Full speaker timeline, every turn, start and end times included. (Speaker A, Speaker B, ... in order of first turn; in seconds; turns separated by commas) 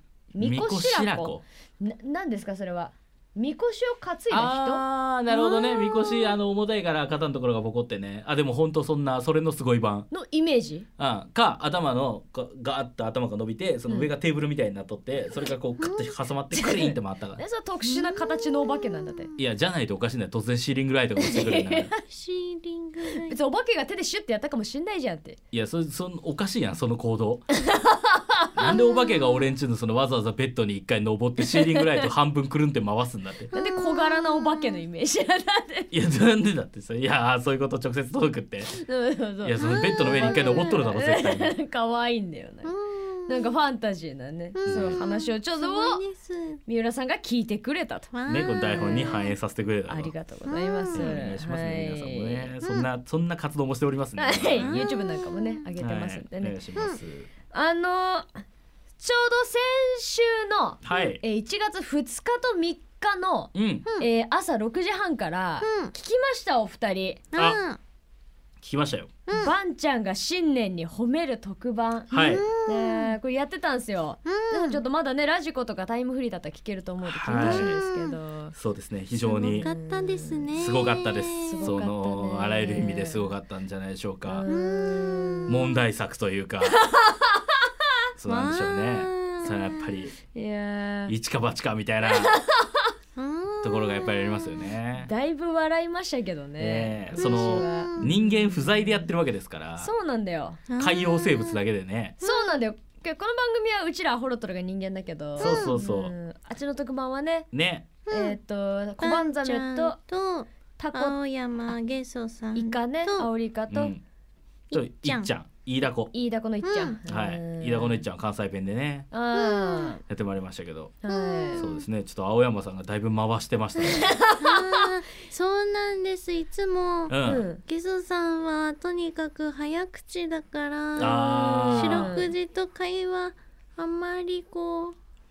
Speaker A: 0.3-4.8, Speaker B: 0.4-1.4, Speaker B: 4.3-10.1, Speaker C: 5.3-6.4, Speaker A: 10.1-10.8, Speaker B: 11.0-17.4, Speaker C: 15.8-16.1, Speaker A: 16.5-19.3, Speaker C: 17.9-19.3, Speaker B: 19.4-21.9, Speaker A: 21.2-22.0, Speaker C: 22.0-23.3, Speaker A: 23.1-25.4, Speaker B: 25.5-27.5, Speaker A: 27.6-28.7, Speaker B: 28.5-33.5, Speaker C: 33.5-34.8, Speaker A: 33.5-35.9, Speaker B: 35.9-38.7, Speaker A: 38.7-42.7, Speaker B: 39.4-41.5, Speaker C: 39.6-40.7, Speaker C: 42.6-43.5, Speaker A: 43.3-46.0, Speaker C: 44.6-46.6, Speaker B: 44.6-45.0, Speaker A: 46.7-48.1, Speaker C: 48.1-49.3, Speaker B: 48.3-50.1, Speaker A: 48.8-49.2, Speaker A: 49.9-52.5, Speaker C: 50.5-51.2, Speaker B: 50.9-54.7, Speaker C: 52.6-52.9, Speaker A: 54.2-56.6, Speaker C: 54.5-55.6, Speaker B: 55.8-57.3, Speaker A: 57.5-58.3, Speaker A: 59.0-67.2, Speaker B: 60.8-61.2, Speaker B: 63.5-63.9, Speaker C: 65.6-65.9, Speaker C: 67.3-67.8, Speaker B: 68.6-69.1, Speaker C: 69.3-69.5, Speaker A: 69.3-78.5, Speaker B: 72.1-72.4, Speaker C: 72.1-73.1, Speaker C: 74.3-74.8, Speaker B: 77.0-77.8, Speaker C: 77.3-78.2, Speaker B: 78.5-79.7, Speaker C: 79.2-81.8, Speaker A: 79.3-80.5, Speaker B: 80.5-84.5, Speaker A: 81.4-83.3, Speaker A: 84.3-85.8, Speaker C: 84.5-85.4, Speaker B: 85.5-86.8, Speaker A: 86.6-87.7, Speaker B: 88.2-90.1, Speaker C: 88.2-90.0, Speaker A: 90.3-91.1, Speaker B: 91.1-92.4, Speaker A: 92.1-92.9, Speaker C: 93.2-94.7, Speaker B: 93.6-95.1, Speaker A: 95.0-99.0, Speaker B: 96.6-99.9, Speaker C: 97.2-98.1, Speaker A: 99.8-100.6, Speaker C: 100.7-101.6, Speaker B: 100.8-102.2, Speaker C: 102.2-102.5, Speaker A: 102.2-107.5, Speaker C: 105.4-105.7, Speaker B: 105.4-106.1, Speaker B: 107.5-107.9, Speaker C: 108.1-108.4, Speaker A: 108.1-110.0, Speaker C: 109.0-113.3, Speaker A: 110.8-111.2, Speaker A: 112.5-113.9, Speaker B: 113.7-114.0, Speaker C: 114.7-115.3, Speaker B: 114.7-116.1, Speaker A: 116.1-118.0, Speaker C: 116.6-117.0, Speaker B: 117.1-119.1, Speaker A: 119.1-120.0, Speaker C: 119.3-119.9, Speaker B: 120.1-121.0, Speaker A: 121.0-121.6, Speaker C: 121.1-121.8, Speaker B: 121.6-124.2, Speaker A: 123.9-124.9, Speaker C: 124.4-134.9, Speaker B: 127.1-127.4, Speaker A: 127.2-127.6, Speaker B: 131.0-132.1, Speaker A: 131.0-132.3